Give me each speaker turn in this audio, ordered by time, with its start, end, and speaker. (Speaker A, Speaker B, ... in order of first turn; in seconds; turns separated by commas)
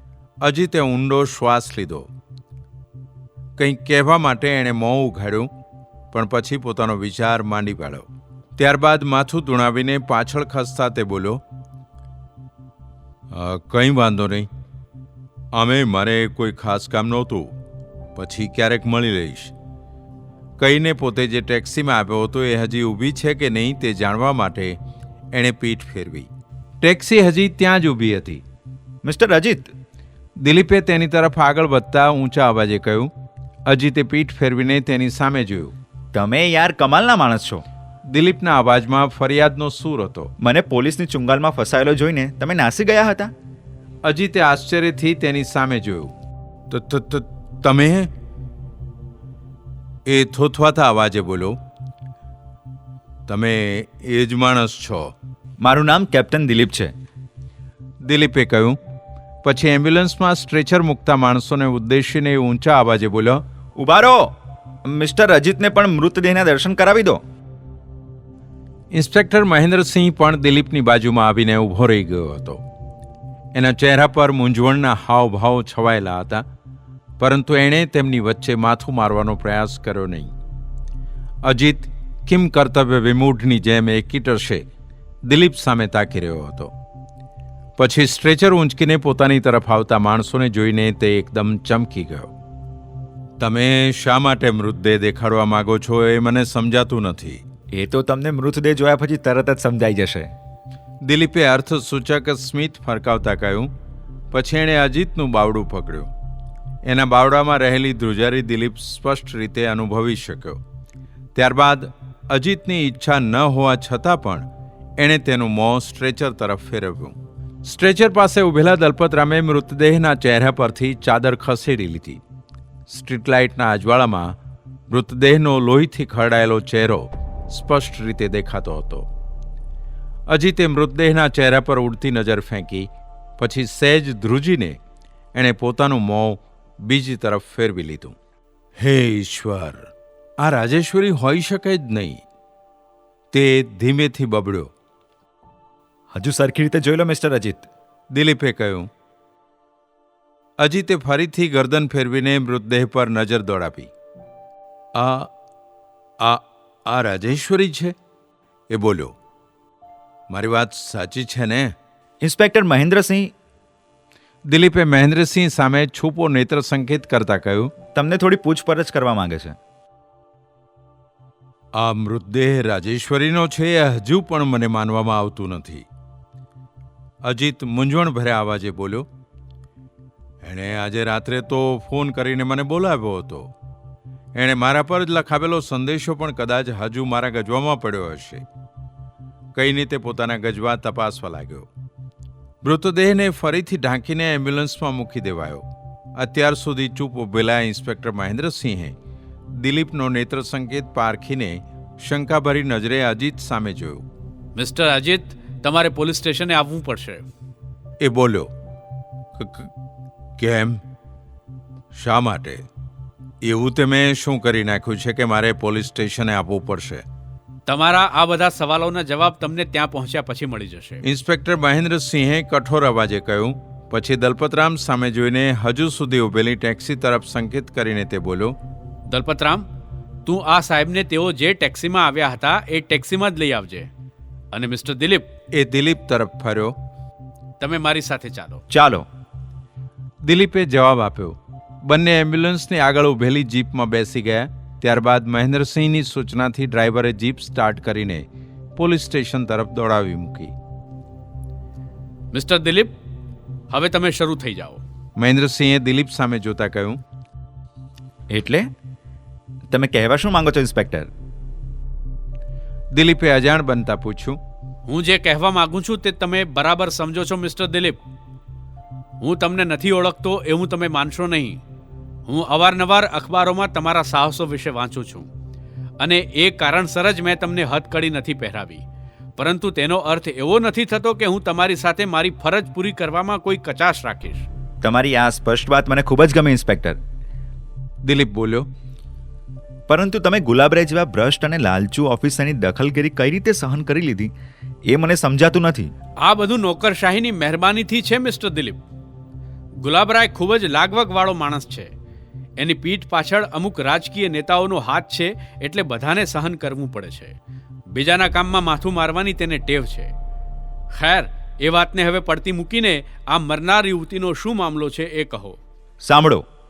Speaker A: 0.4-2.1, Speaker A: 3.6-5.5, Speaker A: 6.1-11.4, Speaker A: 13.3-14.5, Speaker A: 15.5-17.5, Speaker A: 18.1-19.5, Speaker A: 20.6-24.8, Speaker A: 25.3-26.3, Speaker A: 26.8-28.4, Speaker B: 29.0-29.7, Speaker A: 30.4-33.1, Speaker A: 33.7-35.7, Speaker B: 36.1-37.6, Speaker A: 38.1-40.3, Speaker B: 40.4-43.3, Speaker A: 44.0-46.1, Speaker A: 46.7-48.1, Speaker A: 50.1-51.6, Speaker A: 53.3-55.1, Speaker B: 55.6-56.9, Speaker A: 58.0-58.8, Speaker A: 59.4-63.4, Speaker B: 63.8-64.3, Speaker B: 64.8-67.2, Speaker A: 68.9-72.6, Speaker A: 73.5-76.4, Speaker A: 77.2-80.3, Speaker A: 81.4-84.7, Speaker A: 85.2-86.7, Speaker A: 87.8-92.3, Speaker A: 93.4-97.4, Speaker B: 97.7-100.3, Speaker A: 101.0-103.7, Speaker A: 104.3-106.1, Speaker A: 106.8-110.6, Speaker A: 111.3-122.2, Speaker A: 122.9-124.3, Speaker A: 124.9-129.1, Speaker A: 130.3-134.8, Speaker A: 135.3-138.1, Speaker A: 138.8-139.9, Speaker A: 140.4-142.2, Speaker A: 143.3-144.7, Speaker B: 146.1-147.7, Speaker A: 148.1-148.9, Speaker A: 150.6-153.9, Speaker A: 154.9-155.3, Speaker A: 156.2-157.9, Speaker A: 158.7-159.1, Speaker A: 160.3-161.7, Speaker B: 162.2-163.3, Speaker A: 164.5-167.7, Speaker B: 167.9-169.6, Speaker A: 171.8-175.8, Speaker A: 177.2-179.1, Speaker A: 180.4-183.5, Speaker A: 184.3-188.4, Speaker A: 189.5-191.7, Speaker A: 192.6-195.7, Speaker A: 196.2-198.9, Speaker A: 199.5-204.0, Speaker C: 204.6-207.3, Speaker A: 208.0-208.5, Speaker A: 209.4-209.7, Speaker A: 210.4-210.8, Speaker A: 211.9-212.6, Speaker A: 213.4-217.0, Speaker C: 217.7-221.0, Speaker A: 221.0-228.5, Speaker C: 229.1-229.7, Speaker C: 230.2-233.9, Speaker C: 234.5-235.3, Speaker A: 235.5-236.7, Speaker C: 237.6-238.6, Speaker B: 238.7-239.1, Speaker A: 240.2-248.2, Speaker A: 248.8-250.5, Speaker C: 252.3-252.9, Speaker C: 253.7-254.8, Speaker A: 255.2-257.0, Speaker B: 258.3-258.7, Speaker B: 259.7-261.1, Speaker A: 262.9-264.4, Speaker C: 264.9-268.0, Speaker C: 269.2-271.6, Speaker C: 272.2-275.3, Speaker C: 276.0-278.8, Speaker C: 279.4-284.4, Speaker B: 284.8-287.0, Speaker A: 288.0-288.7, Speaker B: 289.9-294.3, Speaker B: 294.9-295.9, Speaker C: 296.2-298.8, Speaker C: 299.8-301.9, Speaker C: 302.6-307.3, Speaker C: 307.9-310.1, Speaker C: 310.9-315.6, Speaker B: 316.0-316.4